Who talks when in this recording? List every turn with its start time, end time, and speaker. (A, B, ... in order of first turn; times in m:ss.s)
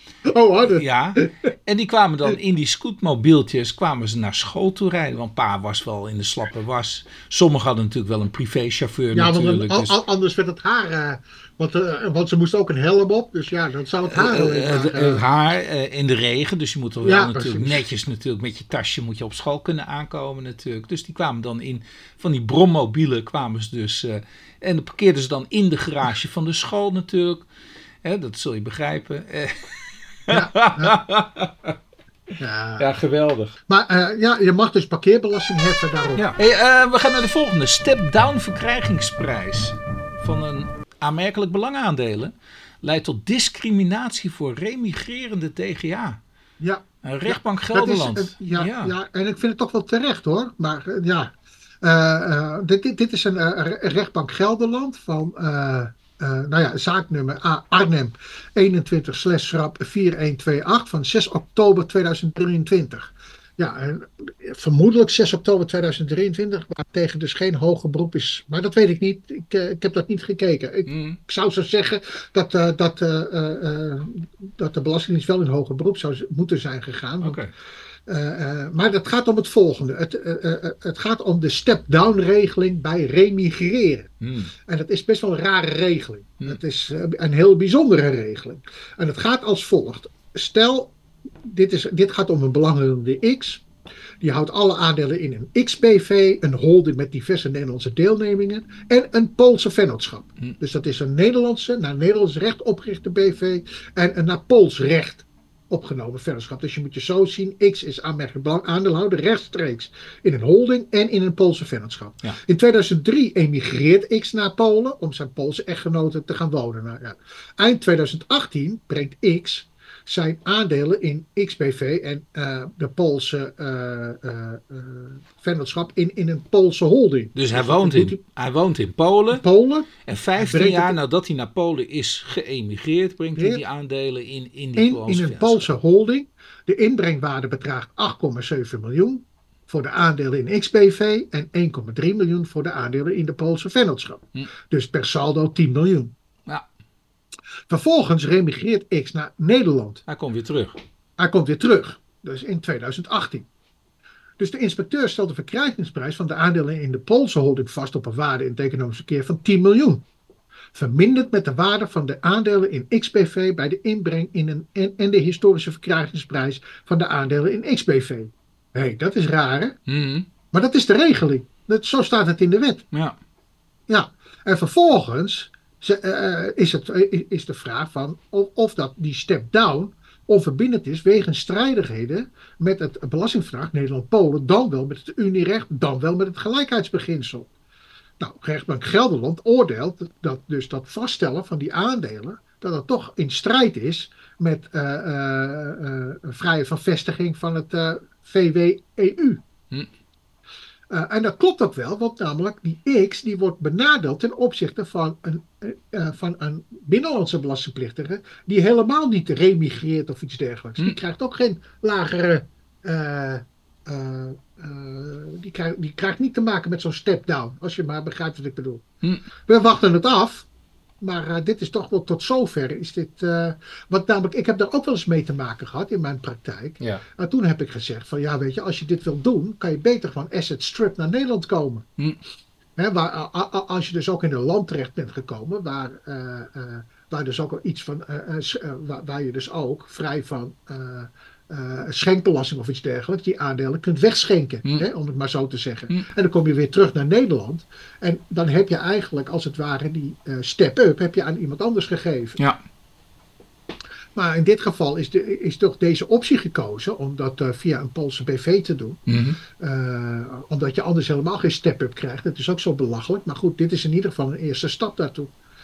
0:00.2-0:01.3 A
0:00.6-0:10.0 B
0:09.1-0:15.2 A
0:14.0-0:27.4 B
0:17.0-0:17.8 A
0:28.0-0:31.8 B
0:30.3-0:31.0 A
0:32.4-0:32.9 A
0:32.8-0:33.6 B
0:33.7-0:36.3 A
0:36.2-0:46.2 B
0:46.6-1:17.4 A
0:47.0-0:48.9 B
1:10.9-1:11.2 B
1:17.2-1:17.5 B
1:18.1-1:24.1 A
1:24.2-1:24.5 B
1:24.6-1:30.9 A
1:31.4-1:33.6 A
1:34.2-2:08.2 A
2:07.3-2:09.4 B
2:09.3-2:11.0 A
2:10.0-2:15.7 B
2:13.4-2:13.6 A
2:14.8-2:26.1 A
2:27.7-2:30.0 A
2:30.1-2:30.8 B
2:31.2-2:33.5 A
2:34.4-2:40.0 A
2:40.7-2:49.8 A
2:49.9-2:50.3 B
2:50.5-2:52.8 A
2:52.9-2:53.2 B
2:53.9-3:07.5 A
3:08.2-3:19.4 A
3:20.9-3:38.8 A
3:39.4-3:40.5 A
3:41.0-3:51.8 A
3:52.8-4:12.4 A
4:14.1-4:19.0 A
4:19.1-4:19.4 B
4:19.6-4:25.3 A